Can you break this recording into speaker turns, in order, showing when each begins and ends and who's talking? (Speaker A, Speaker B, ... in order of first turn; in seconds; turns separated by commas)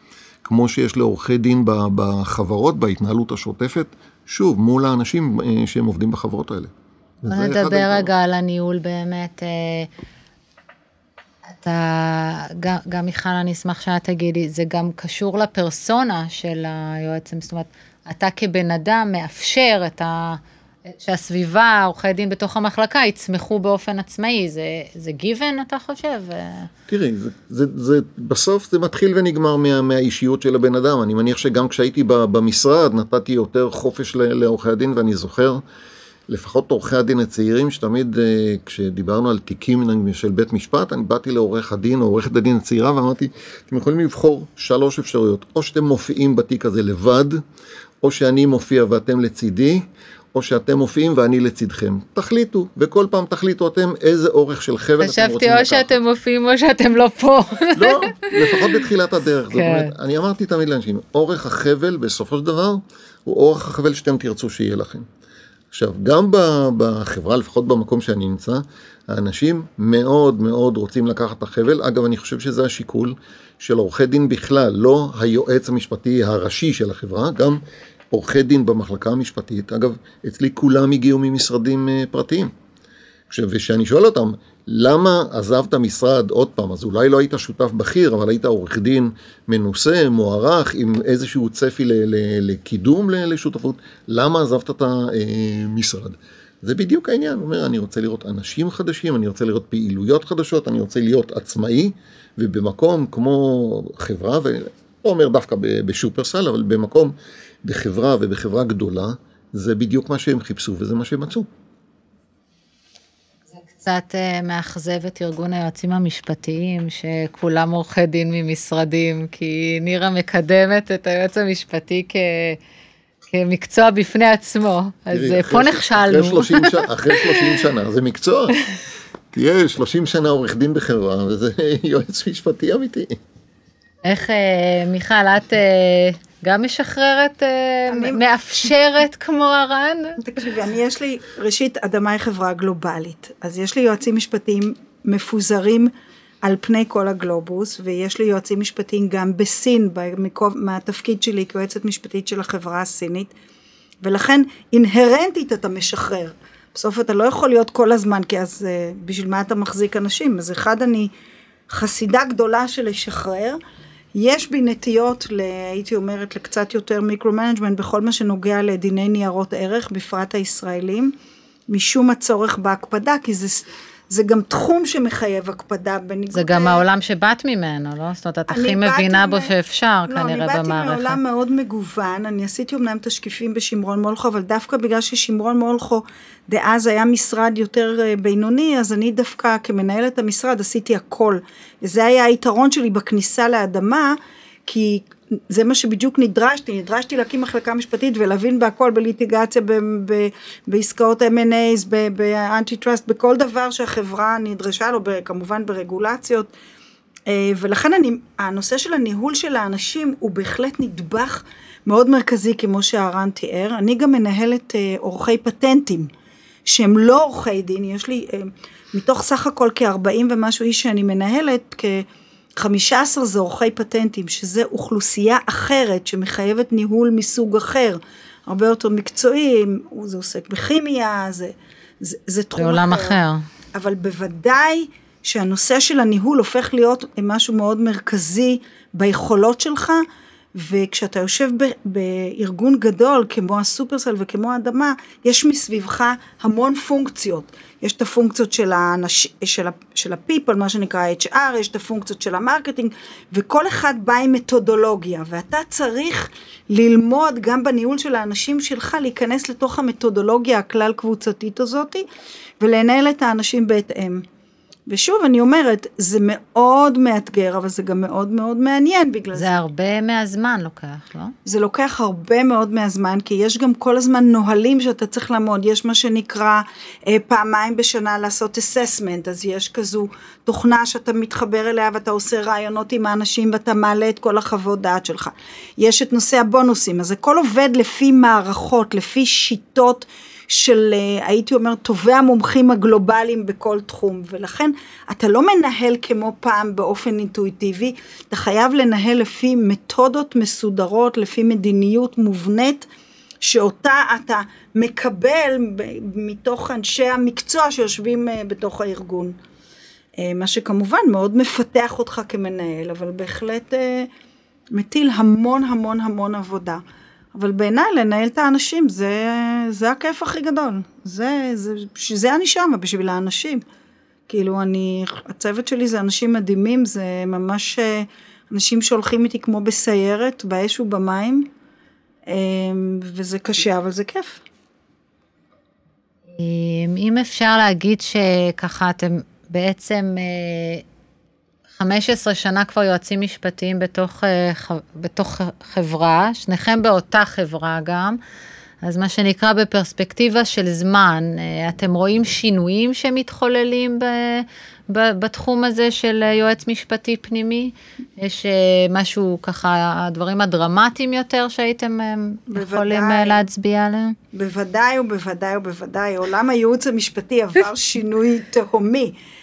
Speaker A: 0.4-8.1, Speaker B: 7.3-9.9, Speaker B: 11.5-26.7, Speaker A: 26.9-35.6, Speaker A: 36.3-47.4, Speaker A: 48.0-55.9, Speaker B: 55.0-58.7, Speaker A: 57.7-65.0, Speaker B: 59.5-59.9, Speaker A: 65.7-77.6, Speaker A: 78.1-82.5, Speaker A: 83.3-111.5, Speaker B: 113.5-122.6, Speaker B: 123.3-127.5, Speaker A: 125.1-128.6, Speaker A: 129.3-133.2, Speaker B: 134.0-140.2, Speaker C: 137.9-138.2, Speaker C: 140.2-145.9, Speaker C: 146.4-153.3, Speaker C: 154.0-161.1, Speaker C: 161.7-163.6, Speaker C: 164.1-171.1, Speaker C: 171.7-176.8, Speaker B: 176.3-181.2, Speaker C: 178.5-179.5, Speaker C: 180.1-206.5, Speaker C: 207.3-216.1, Speaker C: 216.7-233.2, Speaker B: 232.6-233.4, Speaker C: 233.7-262.1, Speaker C: 262.6-264.2, Speaker C: 264.9-269.6, Speaker B: 269.3-271.3, Speaker C: 271.4-302.9, Speaker C: 303.4-309.4, Speaker C: 310.2-314.1, Speaker C: 314.7-316.8, Speaker C: 317.3-323.6, Speaker C: 324.3-331.5, Speaker C: 332.3-334.4, Speaker B: 336.3-340.8, Speaker B: 341.8-348.2, Speaker B: 348.8-364.1, Speaker C: 362.5-363.5, Speaker C: 364.3-369.1